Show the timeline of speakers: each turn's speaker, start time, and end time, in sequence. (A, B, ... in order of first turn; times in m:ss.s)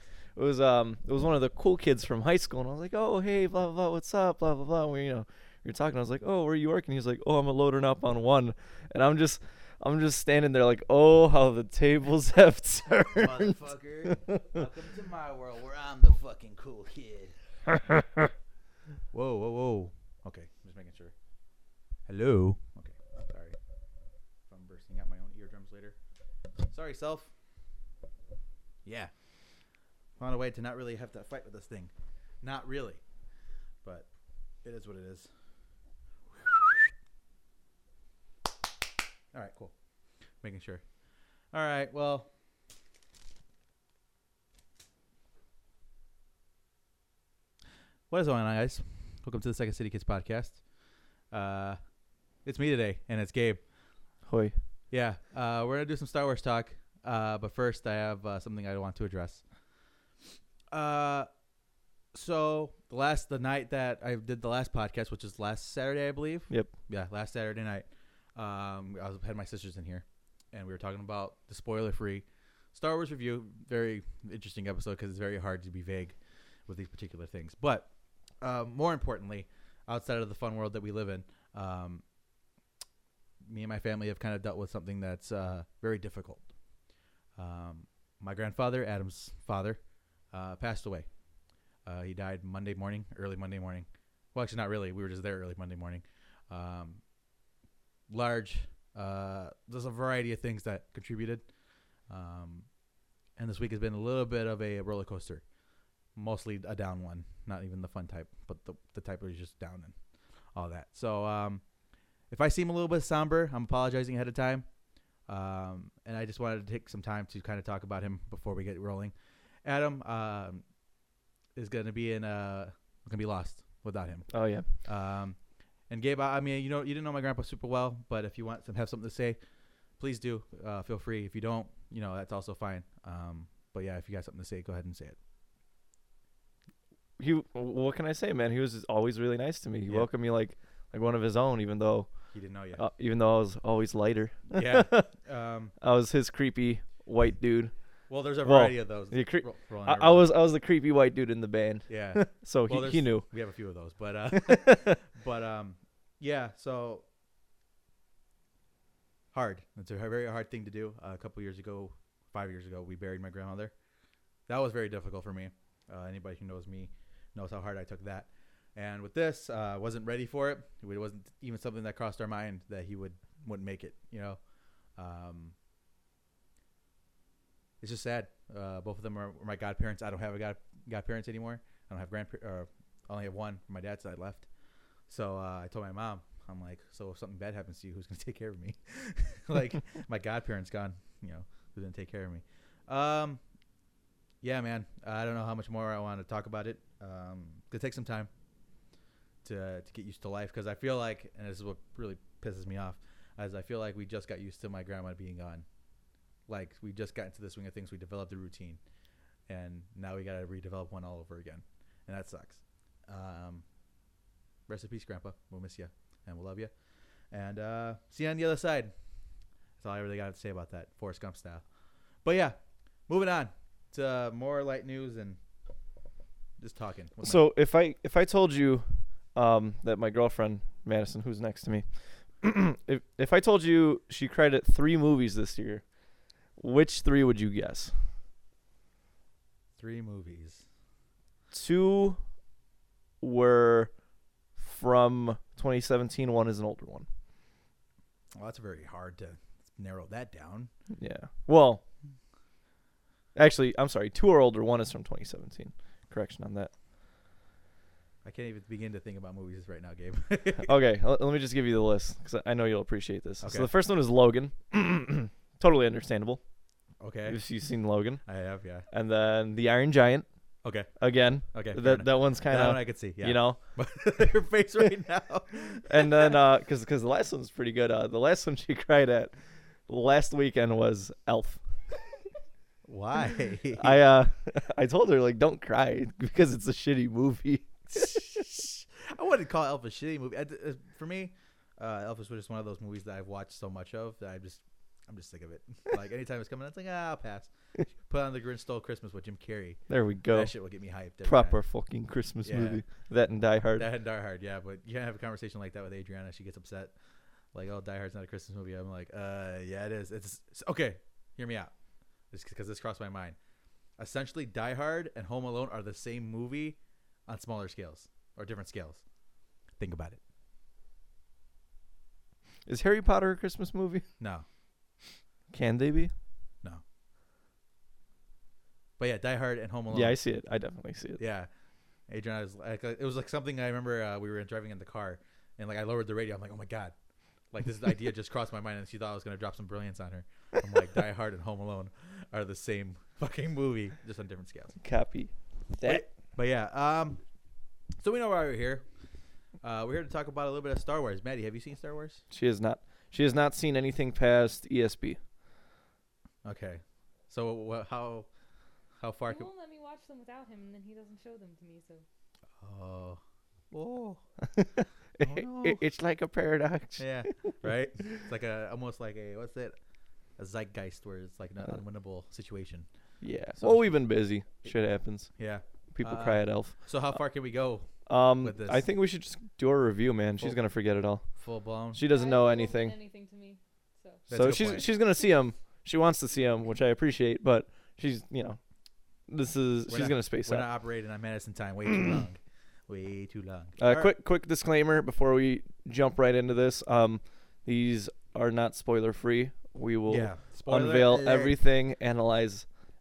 0:00.4-0:14.6 A
0:13.1-0:17.4 B
0:19.1-0:21.1 B
0:22.1-0:23.6 B
0:24.5-0:26.0 B
0:26.7-0:27.3 B
0:28.8-0:29.1 B
0:30.2-0:33.0 B
0:34.6-0:35.3 B
0:36.3-0:36.9 B
0:39.3-0:39.7 B
0:40.4-0:40.8 B
0:41.5-0:42.3 B
0:48.1-0:50.6 B
0:51.3-0:51.8 B
0:52.4-0:53.6 B
0:54.3-0:54.6 A
0:54.9-0:59.4 B
1:00.7-1:01.3 B
1:02.1-1:17.9 B
1:18.4-1:22.0 B
1:23.4-1:26.5 B
1:27.4-1:29.8 B
1:30.3-1:31.1 B
1:31.8-1:37.0 B
1:38.1-1:41.5 B
1:42.1-1:42.7 B
1:43.4-1:45.4 B
1:46.2-1:50.0 B
1:50.6-1:51.6 B
1:52.3-1:54.7 B
1:55.3-2:00.6 B
2:01.6-2:09.4 B
2:04.3-2:04.7 A
2:10.0-2:15.2 B
2:17.2-2:22.1 A
2:22.3-2:22.8 B
2:22.8-2:25.1 A
2:24.5-2:25.7 B
2:25.8-2:27.7 A
2:28.1-2:30.3 B
2:28.4-2:33.3 A
2:31.9-2:37.1 B
2:34.3-2:35.0 A
2:39.3-2:43.7 B
2:44.5-2:54.4 B
2:55.0-2:55.6 B
2:57.8-3:04.5 B
3:05.1-3:13.4 B
3:14.4-3:18.3 B
3:19.4-3:25.6 B
3:26.5-3:28.8 B
3:29.5-3:33.6 B
3:34.7-3:36.7 B
3:37.3-3:38.9 B
3:39.8-3:41.6 B
3:42.2-3:42.6 B
3:43.1-3:45.4 B
3:46.6-3:47.4 B
3:47.2-3:51.8 A
3:52.4-3:55.8 A
3:56.6-3:57.9 A
3:59.8-4:00.6 B
4:01.5-4:02.2 A
4:03.2-4:03.9 A
4:04.6-4:07.1 A
4:08.4-4:10.7 B
4:11.0-4:11.8 A
4:13.4-4:16.7 A
4:18.2-4:20.7 B
4:20.6-4:26.4 A
4:23.4-4:23.7 B
4:27.0-4:27.4 B
4:27.3-4:28.2 A
4:28.2-4:28.8 B
4:28.9-4:30.3 A
4:30.6-4:36.4 B
4:31.0-4:33.6 A
4:35.9-4:39.3 A
4:39.9-4:41.9 A
4:42.9-4:44.0 B
4:43.8-4:48.3 A
4:48.0-5:01.6 B
4:59.9-5:00.5 A
5:01.2-5:03.9 A
5:02.4-5:02.8 B
5:03.8-5:06.9 B
5:07.5-5:11.7 B
5:12.3-5:13.4 B
5:14.0-5:19.0 B
5:19.8-5:20.2 B
5:22.7-5:24.0 A
5:24.2-5:24.5 B
5:25.5-5:26.1 A
5:29.0-5:30.2 B
5:29.9-5:31.2 A
5:31.2-5:31.5 B
5:32.1-5:37.0 B
5:37.5-5:44.8 B
5:44.8-5:46.0 A
5:45.8-5:47.2 B
5:48.0-5:48.9 B
5:49.6-5:52.2 B
5:52.3-5:55.2 A
5:56.4-5:58.3 B
5:59.0-5:59.5 B
5:59.3-6:02.0 C
6:02.6-6:03.2 B
6:03.7-6:04.2 B
6:04.4-6:07.6 A
6:05.2-6:05.8 B
6:07.0-6:09.8 B
6:10.4-6:12.9 B
6:13.2-6:15.3 A
6:13.6-6:14.0 B
6:15.4-6:18.8 B
6:15.9-6:17.2 A
6:18.1-6:21.3 A
6:21.4-6:22.0 B
6:21.9-6:23.0 A
6:22.1-6:25.2 C
6:24.3-6:24.8 B
6:24.3-6:28.6 A
6:29.3-6:30.7 A
6:29.9-6:34.1 B
6:31.9-6:32.2 A
6:33.8-6:42.7 A
6:40.1-6:41.6 B